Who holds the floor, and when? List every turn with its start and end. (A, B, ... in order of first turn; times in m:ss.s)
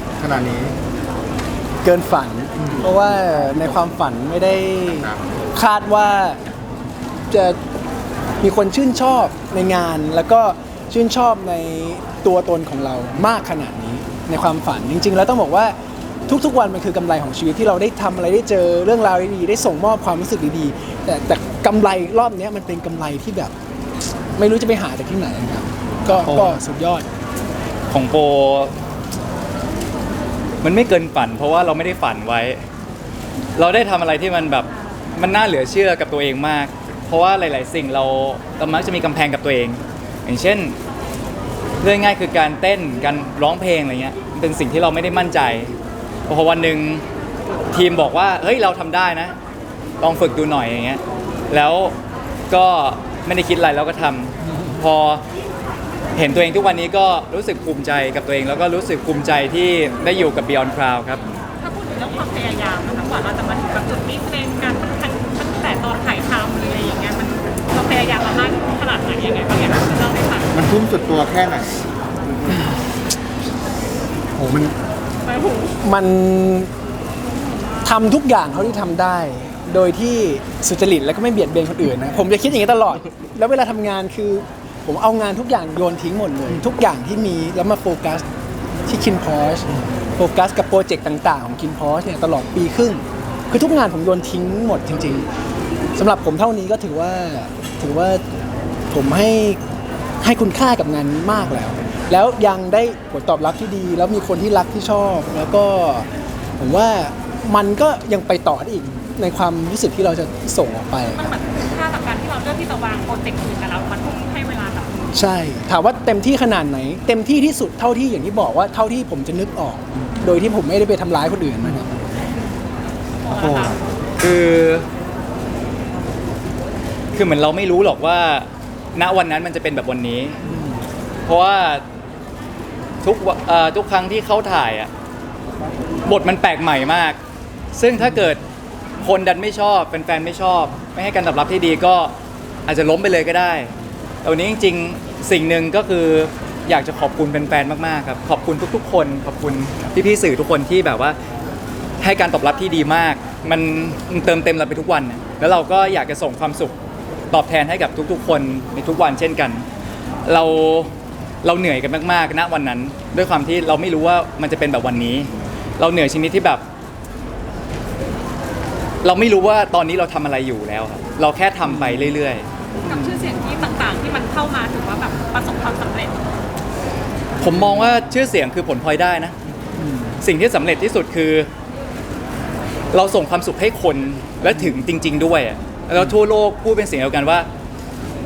0:00.2-0:00.8 A
0:01.8-0:06.4 B
0:02.6-0:02.8 A
0:07.3-0:07.6 B
0:08.4-0:15.7 B
0:16.3-0:23.5 B
0:24.4-0:27.1 B
0:26.1-0:26.6 A
0:27.9-0:28.7 C
0:30.6-0:32.6 C
0:33.6-0:40.8 C
0:41.8-0:45.7 C
0:46.3-0:47.0 C
0:47.7-0:49.3 C
0:50.0-0:51.9 C
0:52.5-0:55.2 C
0:56.1-1:01.2 C
1:01.6-1:10.5 D
1:10.5-1:11.7 A
1:12.5-1:12.9 B
1:14.4-1:14.7 B
1:15.2-1:15.8 D
1:15.8-1:16.7 B
1:17.8-1:28.2 B
1:28.9-1:35.2 B
1:36.0-1:38.2 B
1:38.9-1:39.6 B
1:40.2-1:46.1 B
1:46.6-1:51.3 B
1:51.1-1:55.2 D
1:55.1-2:01.9 B
2:03.2-2:03.8 D
2:03.3-2:03.8 A
2:04.2-2:04.9 C
2:07.1-2:10.4 C
2:10.4-2:10.8 B
2:11.2-2:11.8 C
2:13.0-2:14.9 C
2:16.0-2:17.2 C
2:17.7-2:18.4 C
2:19.0-2:22.1 C
2:22.7-2:23.7 C
2:24.2-2:31.2 C
2:32.0-2:36.7 C
2:37.3-2:39.6 C
2:40.2-2:40.9 C
2:41.4-2:46.6 C
2:49.0-2:52.5 C
2:51.6-2:52.2 B
2:52.8-2:53.3 B
2:52.8-2:56.2 D
2:57.4-2:57.9 B
2:57.4-2:59.3 C
2:59.8-3:00.2 B
3:00.2-3:01.5 C
3:02.9-3:07.5 C